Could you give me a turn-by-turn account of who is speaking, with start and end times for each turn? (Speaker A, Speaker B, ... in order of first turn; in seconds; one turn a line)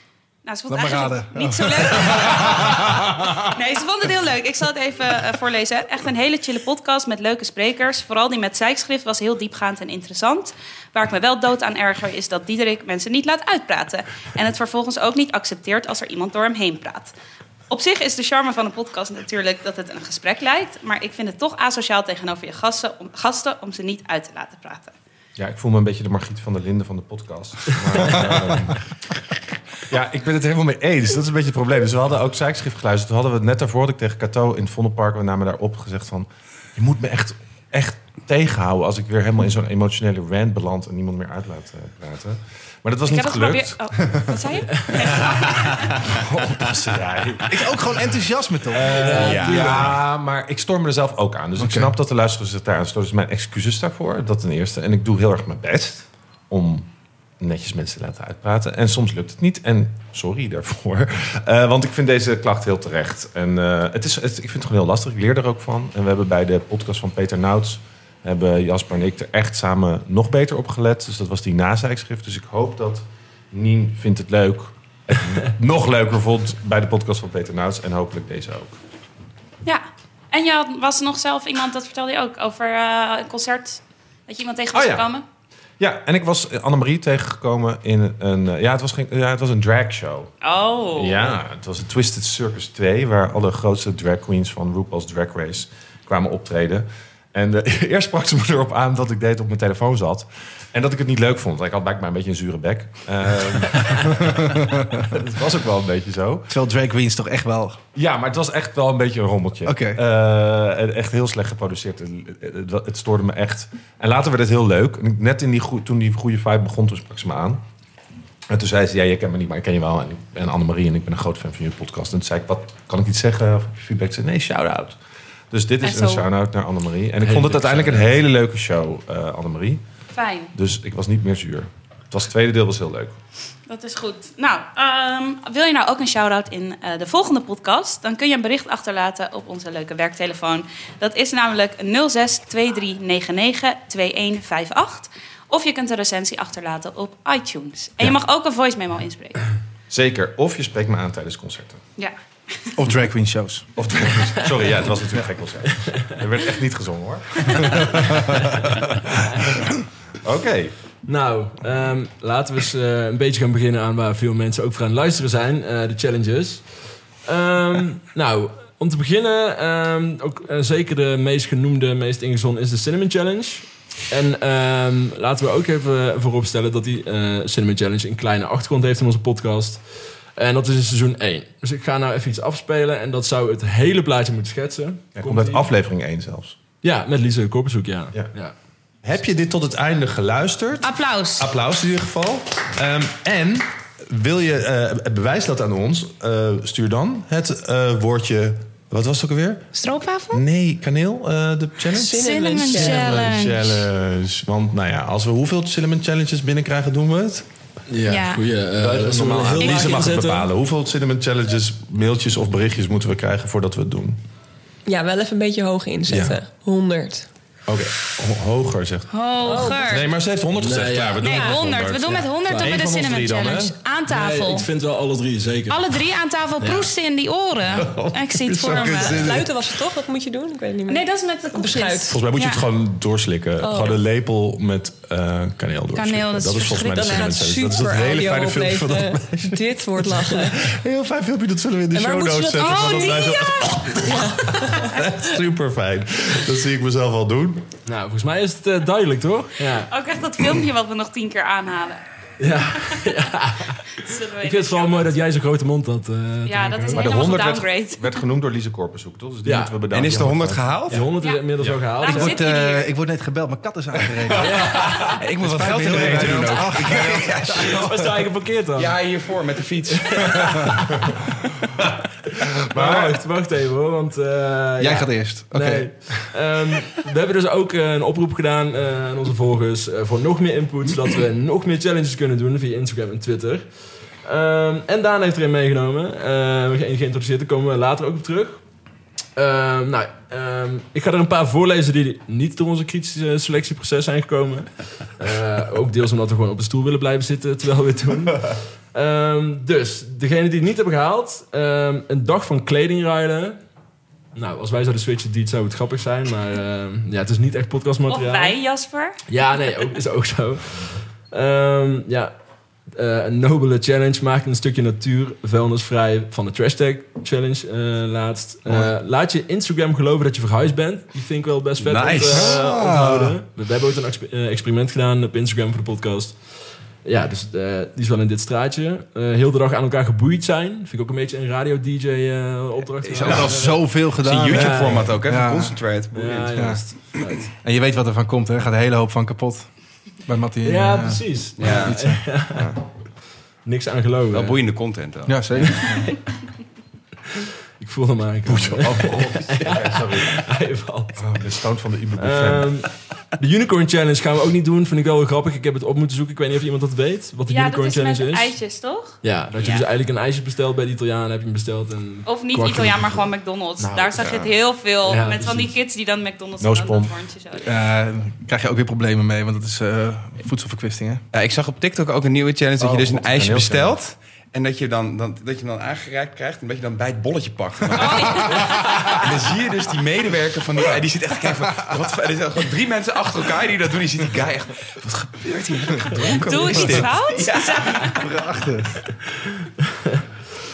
Speaker A: 0.4-17.1
Speaker B: 0.7-3.5
Speaker A: 17.7-24.9
Speaker C: 25.4-28.8
Speaker C: 29.9-43.8
Speaker A: 43.1-46.0
Speaker C: 45.0-48.0
Speaker B: 47.5-49.8
Speaker C: 48.7-56.9
Speaker D: 49.0-50.0
Speaker E: 49.1-50.0
Speaker B: 51.5-51.9
Speaker C: 57.4-78.8
Speaker A: 79.6-85.2
Speaker C: 84.7-85.1
Speaker C: 85.8-90.3
Speaker A: 90.4-91.3
Speaker C: 90.9-106.5
Speaker B: 104.2-104.8
Speaker B: 106.5-107.8
Speaker C: 107.9-117.6
Speaker B: 109.6-110.0
Speaker C: 118.5-125.0
Speaker C: 125.5-129.8
Speaker A: 125.8-126.3
Speaker D: 127.2-128.2
Speaker A: 130.1-130.5
Speaker C: 130.5-133.2
Speaker A: 133.7-149.5
Speaker C: 149.9-151.8
Speaker A: 152.0-152.7
Speaker B: 152.8-153.7
Speaker C: 153.8-159.7
Speaker D: 159.1-159.4
Speaker C: 160.2-160.7
Speaker D: 161.1-166.7
Speaker D: 167.2-179.8
Speaker D: 180.3-185.7
Speaker C: 185.2-186.6
Speaker D: 186.8-188.5
Speaker C: 189.0-199.7
Speaker A: 190.8-191.5
Speaker A: 199.7-200.4
Speaker C: 200.3-207.4
Speaker F: 201.9-203.3
Speaker A: 202.1-203.9
Speaker D: 207.9-210.5
Speaker A: 208.1-208.4
Speaker C: 208.8-214.2
Speaker A: 209.6-209.9
Speaker F: 214.9-217.3
Speaker C: 216.1-216.4
Speaker C: 217.7-219.1
Speaker A: 219.1-220.1
Speaker F: 219.4-219.9
Speaker C: 219.8-223.7
Speaker D: 220.6-221.5
Speaker A: 221.2-224.7
Speaker F: 221.2-221.6
Speaker D: 222.4-222.8
Speaker D: 224.1-225.8
Speaker A: 225.7-229.4
Speaker D: 226.6-226.9
Speaker C: 227.7-229.5
Speaker F: 228.7-232.2
Speaker A: 230.9-232.7
Speaker C: 232.1-247.7
Speaker F: 233.6-234.0
Speaker A: 235.9-237.4
Speaker F: 236.8-240.7
Speaker F: 241.9-245.0
Speaker A: 242.6-243.9
Speaker D: 247.8-249.9
Speaker A: 249.9-252.0
Speaker D: 252.4-257.2
Speaker A: 252.7-253.1
Speaker A: 253.9-255.2
Speaker A: 256.4-258.2
Speaker C: 256.9-261.8
Speaker D: 259.4-259.7
Speaker E: 259.9-261.0
Speaker D: 260.9-262.4
Speaker A: 261.2-261.4
Speaker A: 262.0-262.9
Speaker B: 262.1-264.7
Speaker D: 264.4-265.1
Speaker C: 264.7-265.0
Speaker E: 265.0-268.0
Speaker B: 265.4-267.9
Speaker C: 265.9-267.0
Speaker D: 267.5-268.9
Speaker E: 268.7-270.7
Speaker D: 269.9-271.1
Speaker C: 272.5-273.2
Speaker D: 272.7-283.7
Speaker B: 274.8-276.2
Speaker D: 284.2-288.6
Speaker D: 289.4-303.6
Speaker D: 304.3-308.6
Speaker A: 308.1-309.2
Speaker D: 309.3-312.3
Speaker D: 312.9-326.4
Speaker E: 321.8-322.6
Speaker B: 322.3-323.4
Speaker D: 327.0-333.7
Speaker E: 333.0-336.7
Speaker B: 333.2-335.8
Speaker D: 334.5-335.1
Speaker D: 336.1-337.5
Speaker B: 336.6-336.8
Speaker B: 337.6-339.7
Speaker B: 340.2-342.8
Speaker D: 340.6-342.7
Speaker E: 341.6-342.1
Speaker D: 343.6-344.6
Speaker E: 344.3-345.9
Speaker B: 345.2-346.1
Speaker D: 345.6-346.1
Speaker D: 347.3-351.2
Speaker C: 348.4-350.4
Speaker C: 351.2-352.7
Speaker D: 352.2-358.5
Speaker A: 357.5-359.8
Speaker D: 359.2-363.3
Speaker A: 362.2-367.8
Speaker D: 363.8-364.4
Speaker D: 365.0-365.7
Speaker C: 366.6-367.1
Speaker B: 367.6-371.2
Speaker E: 371.3-388.3
Speaker C: 372.8-374.0
Speaker A: 377.9-379.1
Speaker A: 386.2-388.3
Speaker B: 388.1-389.0
Speaker D: 389.2-390.2